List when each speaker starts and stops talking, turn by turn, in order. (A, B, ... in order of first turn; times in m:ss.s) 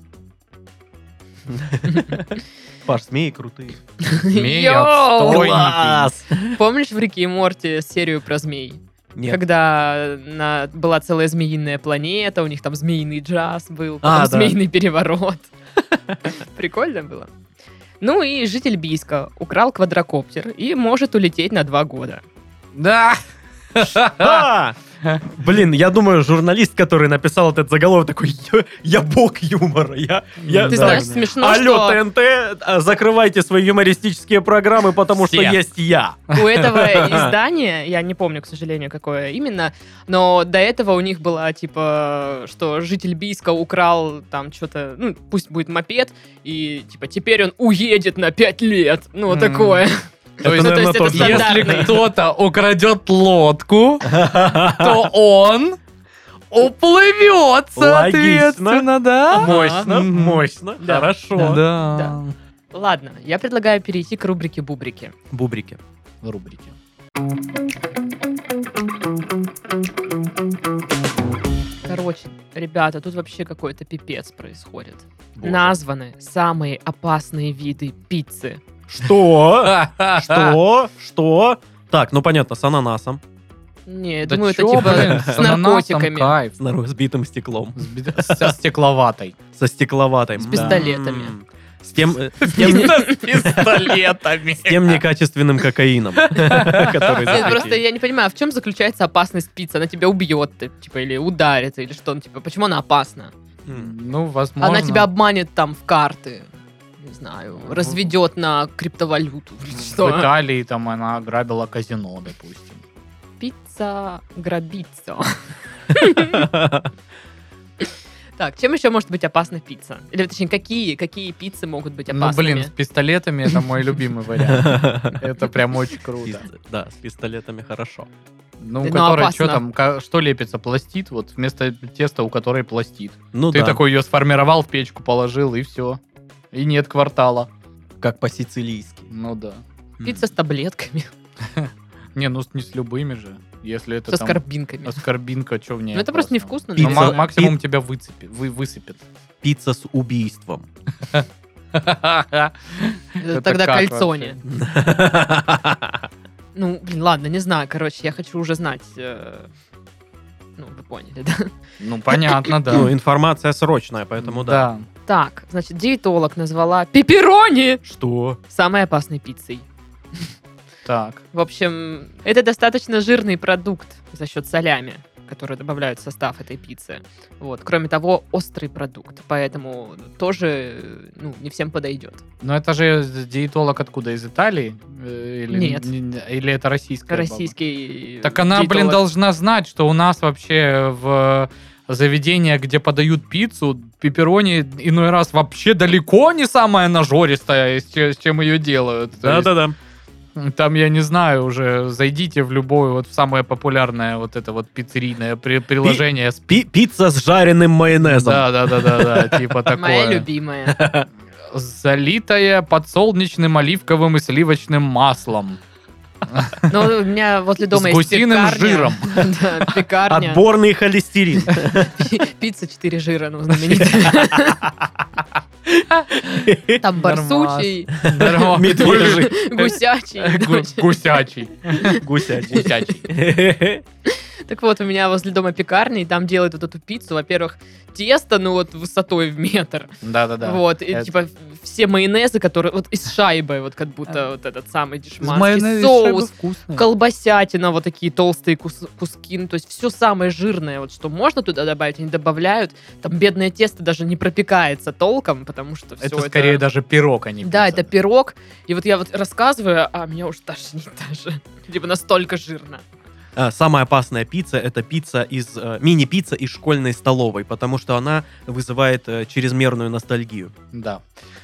0:01.5-0:03.8 A
0:04.0-0:05.7 B
0:04.3-0:06.1 C
0:05.2-0:06.6 A
0:06.5-0:15.5 B
0:09.1-0:09.4 A
0:14.0-0:14.6 A
0:16.2-0:17.3 B
0:18.0-0:22.2 B
0:22.7-0:23.2 C
0:23.7-0:24.5 C
0:24.1-0:37.3 A
0:30.4-0:31.2 C
0:30.6-0:32.0 B
0:35.2-0:35.6 C
0:36.3-0:52.0 B
0:49.3-0:49.8 C
0:50.4-0:52.0 A
0:50.4-0:55.8 C
0:54.0-0:55.1 A
0:56.5-1:00.4 C
0:57.8-1:01.6 A
0:59.3-0:59.9 B
1:00.8-1:01.1 B
1:01.3-1:02.3 C
1:01.8-1:02.2 B
1:02.7-1:05.1 B
1:05.3-1:05.8 A
1:06.2-1:06.7 C
1:11.8-1:18.6 B
1:15.4-1:15.7 A
1:18.9-1:23.2 A
1:19.6-1:20.6 C
1:23.9-1:26.4 B
1:24.3-1:26.5 C
1:24.8-1:25.4 A
1:26.6-1:28.5 A
1:27.8-1:29.4 C
1:29.6-1:34.0 A
1:30.4-1:31.3 B
1:30.4-1:30.8 C
1:32.4-1:35.0 C
1:32.7-1:33.1 B
1:34.6-1:37.8 A
1:36.3-1:37.5 C
1:37.2-1:43.3 B
1:43.7-1:43.9 A
1:43.7-1:45.1 C
1:44.6-1:46.5 B
1:47.0-1:50.3 B
1:47.7-1:48.0 C
1:49.7-1:52.8 C
1:53.4-1:55.4 B
1:55.9-1:56.4 B
1:56.3-1:56.9 A
1:57.8-2:02.7 B
2:02.1-2:06.5 C
2:04.5-2:05.2 A
2:06.2-2:08.1 A
2:08.6-2:16.0 C
2:08.8-2:09.6 B
2:13.3-2:13.8 A
2:16.5-2:17.5 C
2:18.0-2:19.1 A
2:19.1-2:19.6 C
2:20.0-2:21.1 B
2:21.5-2:29.0 C
2:24.1-2:25.0 B
2:25.9-2:27.2 B
2:26.8-2:27.5 A
2:29.4-2:30.7 A
2:31.1-2:34.4 C
2:33.2-2:34.4 B
2:34.4-2:36.1 A
2:36.5-2:39.5 B
2:40.6-2:41.5 B
2:41.8-2:42.9 C
2:42.1-2:42.5 B
2:42.7-2:44.7 A
2:44.2-2:44.8 C
2:45.1-2:47.8 B
2:47.8-2:48.4 A
2:48.5-2:50.3 B
2:50.8-2:51.2 C
2:51.3-3:02.2 B
3:02.4-3:07.5 C
3:05.5-3:05.9 B
3:07.1-3:09.0 B
3:08.2-3:19.5 C
3:19.2-3:19.8 A
3:20.4-3:26.6 C
3:25.8-3:29.5 A
3:28.0-3:30.2 C
3:29.7-3:30.8 B
3:30.7-3:31.1 A
3:31.5-3:35.6 C
3:36.2-3:36.7 C
3:36.7-3:40.4 B
3:37.7-3:39.3 C
3:40.0-3:42.0 A
3:41.6-3:44.7 B
3:43.7-3:44.6 A
3:45.7-3:46.8 A
3:46.8-3:48.1 B
3:47.0-3:53.1 C
3:48.0-3:49.4 A
3:48.6-3:51.0 B
3:51.8-3:53.8 A
3:54.0-4:16.6 B
4:00.0-4:01.1 C
4:05.2-4:06.8 C
4:16.0-4:17.9 C
4:17.4-4:22.8 B
4:23.4-4:30.5 A
4:30.7-4:31.0 C